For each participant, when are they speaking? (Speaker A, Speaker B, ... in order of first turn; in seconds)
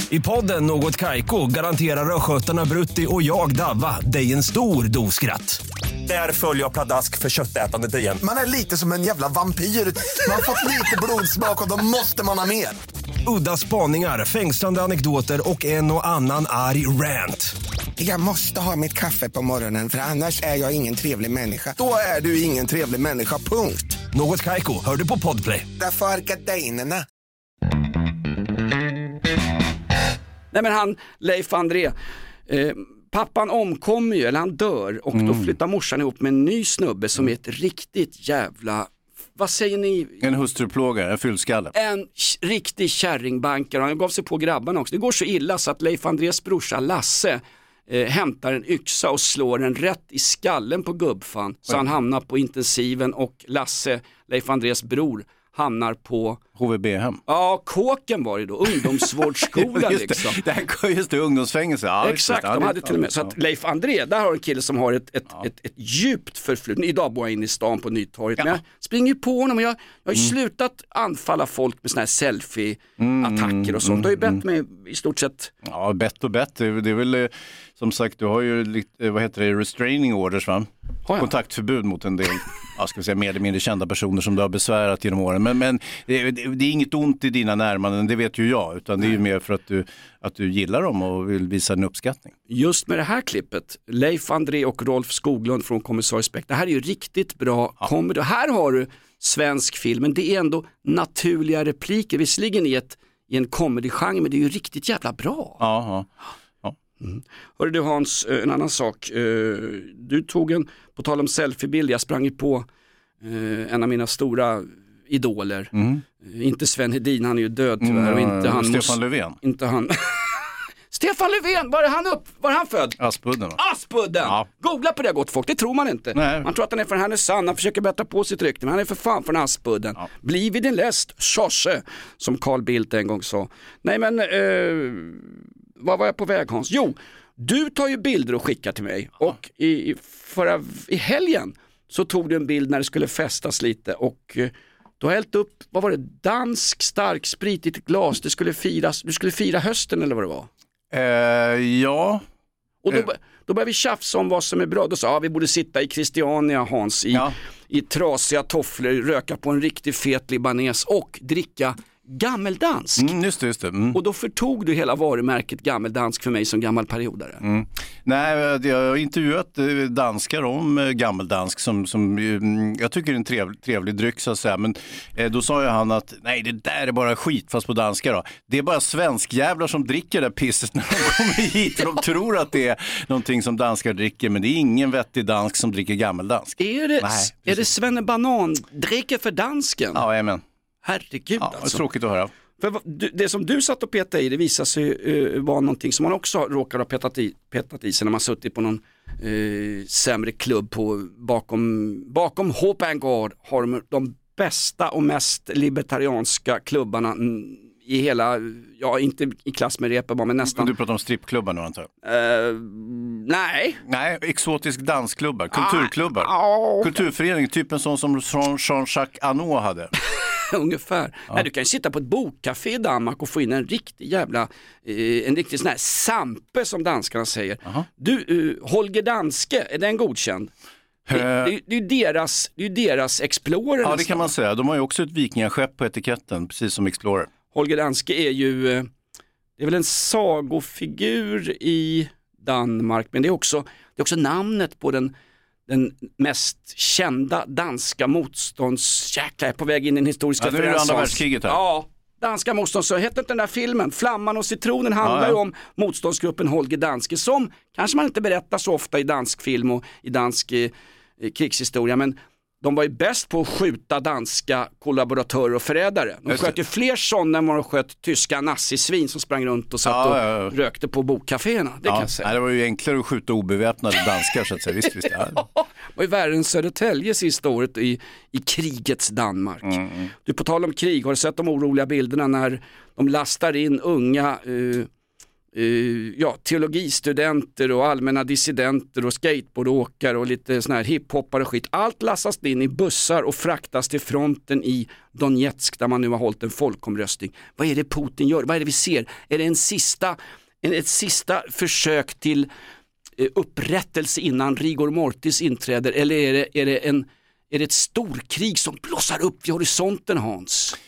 Speaker A: 0.1-8.2, 13.2-17.5, 24.1-25.7
Speaker B: 8.2-12.8, 18.0-24.0, 25.8-27.0
Speaker C: 30.5-31.9, 32.5-40.2, 41.8-56.4, 57.3-60.4, 62.0-75.5, 81.1-81.3, 92.5-105.6, 107.0-112.7, 113.2-123.0, 123.6-150.5, 152.8-163.1, 163.9-167.4, 186.6-190.0, 190.8-191.8, 192.6-210.7, 212.0-213.8, 215.5-216.9, 220.5-230.5, 231.1-234.3, 237.5-238.9, 239.6-245.1, 245.7-272.3, 275.4-284.9, 285.5-302.5, 303.2-310.8
Speaker D: 35.1-35.5, 40.2-41.7, 56.6-57.2, 58.8-63.3, 73.0-74.4, 75.6-92.3, 105.6-106.1, 115.7-116.0, 117.8-119.4, 123.0-123.6, 126.1-126.5, 150.9-152.2, 163.0-164.0, 167.4-187.7, 189.9-190.4, 191.4-192.3, 210.5-211.9, 213.9-219.9, 231.1-231.5, 233.8-237.3, 250.4-251.6, 255.0-255.4, 266.3-266.6, 269.9-270.5, 271.9-275.4, 279.6-280.1